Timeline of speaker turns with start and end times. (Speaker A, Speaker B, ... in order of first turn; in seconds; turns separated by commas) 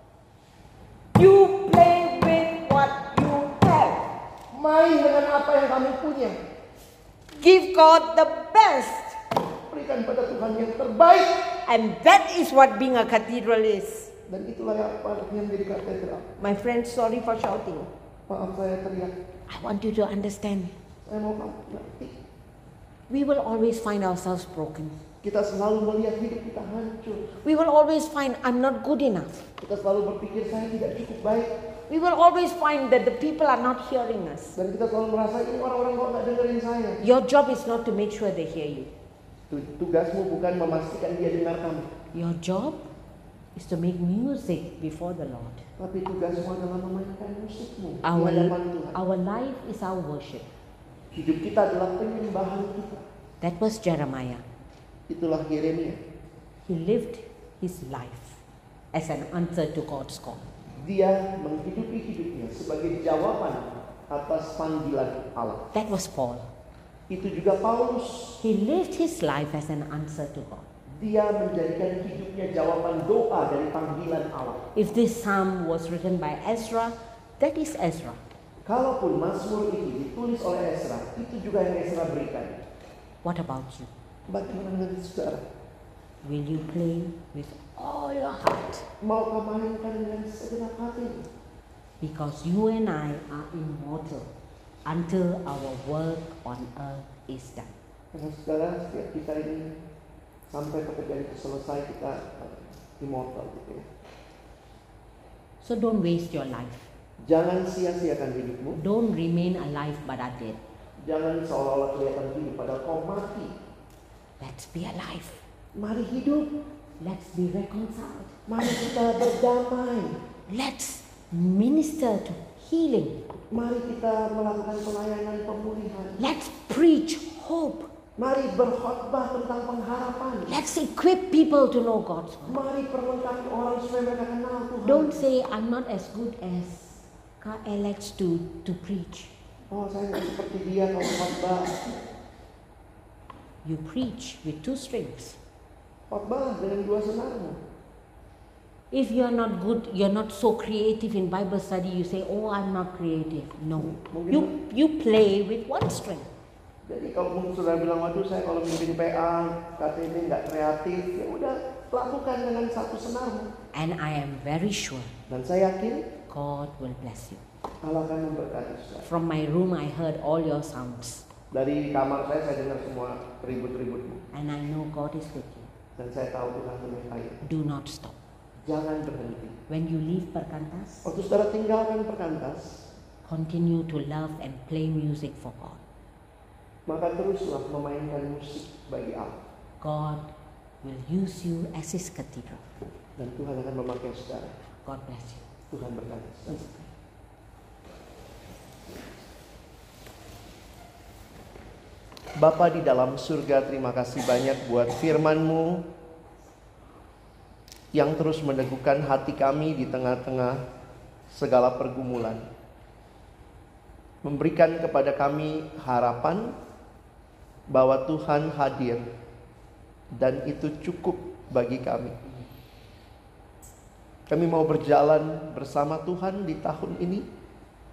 Speaker A: 1.2-4.0, Speaker B: 4.5-6.4, Speaker A: 7.4-9.2, Speaker B: 9.7-11.5, Speaker A: 11.7-14.1, Speaker B: 14.3-16.3, Speaker A: 16.4-17.9, Speaker B: 18.3-19.1, Speaker A: 19.5-20.7, Speaker B: 21.1-22.2, Speaker A: 23.1-24.9, Speaker B: 25.2-27.4, Speaker A: 27.4-29.5, Speaker B: 29.6-31.5, Speaker A: 31.9-34.6, Speaker B: 34.6-37.0, Speaker A: 37.0-38.9, Speaker B: 39.5-41.9, Speaker A: 42.1-42.9, Speaker A: 43.6-45.6, Speaker B: 45.8-49.0, Speaker A: 48.0-50.5, Speaker B: 51.1-53.0, Speaker A: 53.4-54.5, Speaker B: 55.1-56.0, Speaker A: 56.7-58.4, Speaker A: 58.9-60.5, Speaker B: 60.8-65.6, Speaker A: 65.7-66.5, Speaker B: 67.1-68.4, Speaker A: 68.4-70.7, Speaker B: 71.0-74.6, Speaker A: 74.8-78.2, Speaker B: 78.7-82.6, Speaker A: 83.2-83.9, Speaker B: 84.3-85.5, Speaker A: 86.2-88.9, Speaker B: 89.0-91.3, Speaker A: 92.0-94.3, Speaker A: 94.9-97.7, Speaker B: 98.1-99.7, Speaker B: 100.5-103.9, Speaker A: 105.6-106.9, Speaker B: 107.2-108.8, Speaker A: 108.8-110.6, Speaker B: 111.0-113.5, Speaker A: 114.4-115.4, Speaker B: 115.7-116.5, Speaker A: 117.0-118.3, Speaker B: 118.5-120.2, Speaker A: 120.5-123.2, Speaker B: 123.5-126.2, Speaker A: 126.2-127.9, Speaker B: 128.2-130.6, Speaker A: 130.5-132.6, Speaker B: 132.5-135.2, Speaker A: 134.8-139.3, Speaker B: 139.7-141.8, Speaker A: 143.6-145.4, Speaker B: 146.1-147.6, Speaker A: 148.9-156.3, Speaker B: 153.8-154.5, Speaker B: 156.9-163.5, Speaker A: 163.7-165.1, Speaker B: 165.3-166.1, Speaker A: 166.3-167.4, Speaker B: 167.8-169.1, Speaker A: 169.0-171.3, Speaker B: 171.5-174.2, Speaker A: 174.3-175.7, Speaker B: 176.0-177.4, Speaker A: 177.4-178.2, Speaker B: 178.6-179.6, Speaker A: 179.7-181.1, Speaker B: 181.1-182.8, Speaker A: 183.2-185.8, Speaker B: 186.9-189.4, Speaker A: 189.8-190.3, Speaker A: 190.8-192.6, Speaker B: 193.2-194.5, Speaker A: 194.8-195.5, Speaker B: 195.7-196.6, Speaker A: 196.5-196.9, Speaker B: 202.4-205.9, Speaker B: 207.9-210.6, Speaker B: 211.3-212.5, Speaker B: 214.2-216.6, Speaker B: 217.7-219.1, Speaker B: 220.2-222.2, Speaker B: 224.3-227.3